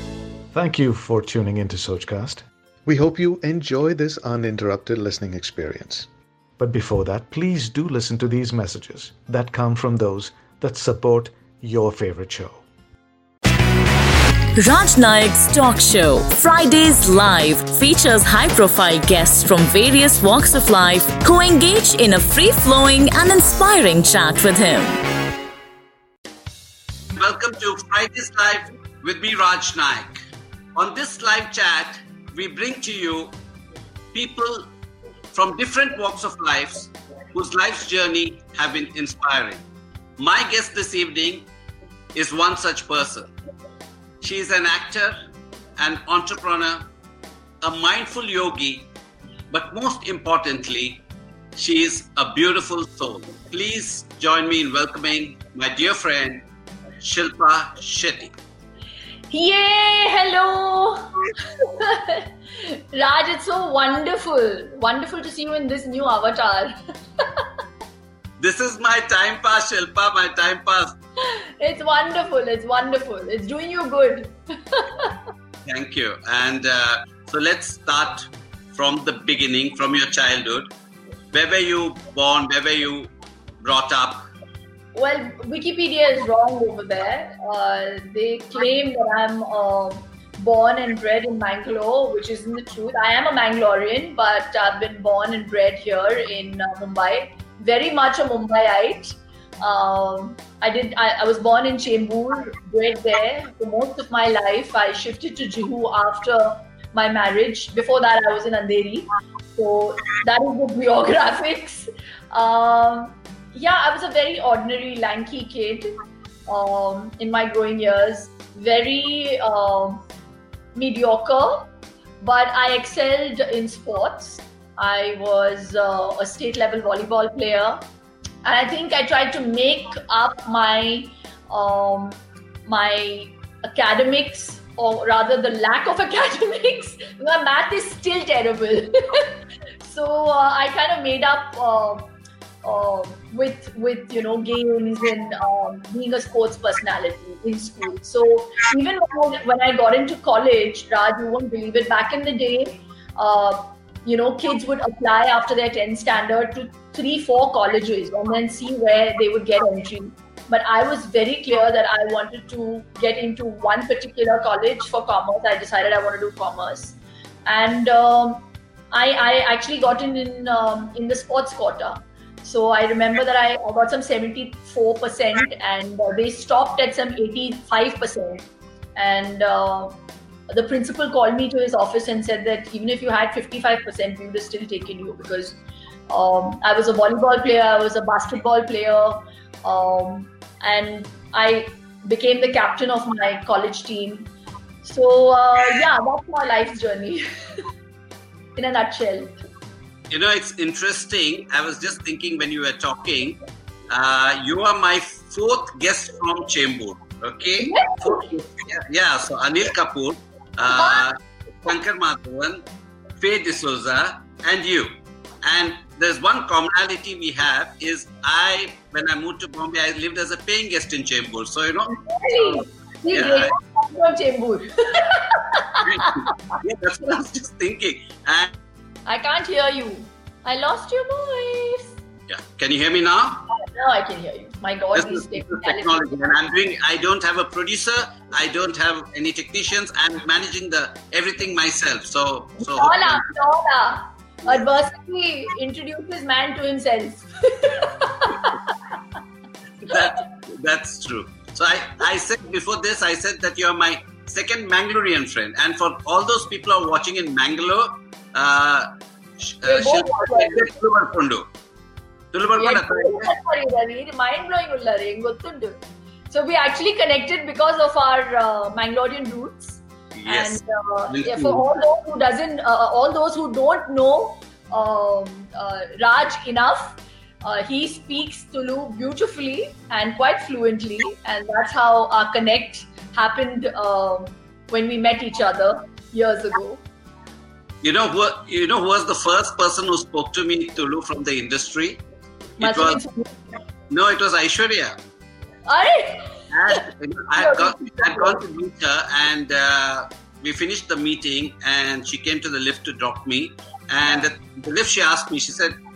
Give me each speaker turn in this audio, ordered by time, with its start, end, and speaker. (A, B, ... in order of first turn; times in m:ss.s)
0:00.5-0:12.6 A
0:14.6-0:25.0 B
0:27.2-0:30.2 C
0:30.8-0:33.4 C
0:34.1-0:34.7 C
0:35.3-0:39.6 C
0:40.2-0:41.5 C
0:42.1-0:43.3 C
0:44.2-0:45.2 C
0:45.8-0:46.9 C
0:47.6-0:48.9 C
0:49.5-0:51.0 C
0:51.6-0:56.4 C
0:57.0-0:58.3 C
0:59.3-1:07.4 D
1:08.4-1:11.0 C
1:11.2-1:15.2 D
1:15.7-1:20.7 C
1:21.3-1:24.2 C
1:24.9-1:55.9 D
1:56.5-2:00.0 D
2:00.7-2:01.7 D
2:02.2-2:07.8 D
2:08.4-2:22.1 D
2:22.6-3:00.0 D
3:00.5-3:14.3 D
3:14.8-3:17.2 D
3:18.6-3:19.3 D
3:20.1-3:32.6 C
3:27.6-3:28.4 D
3:30.7-3:31.0 D
3:33.2-3:43.5 C
3:41.9-3:46.2 D
3:45.8-3:48.5 C
3:49.1-3:51.9 D
3:52.3-3:53.5 C
3:53.7-3:56.4 D
3:54.9-4:03.3 C
4:02.6-4:08.5 D
4:09.8-4:18.9 C
4:19.4-4:21.5 C
4:19.6-4:20.7 D
4:22.3-4:23.3 C
4:22.6-4:46.8 D
4:30.2-4:31.6 C
4:47.8-4:52.0 C
4:52.6-4:53.0 C
4:52.6-4:53.4 D
4:53.9-4:55.0 C
4:55.7-4:56.8 D
4:56.5-5:05.8 C
4:57.4-4:58.4 D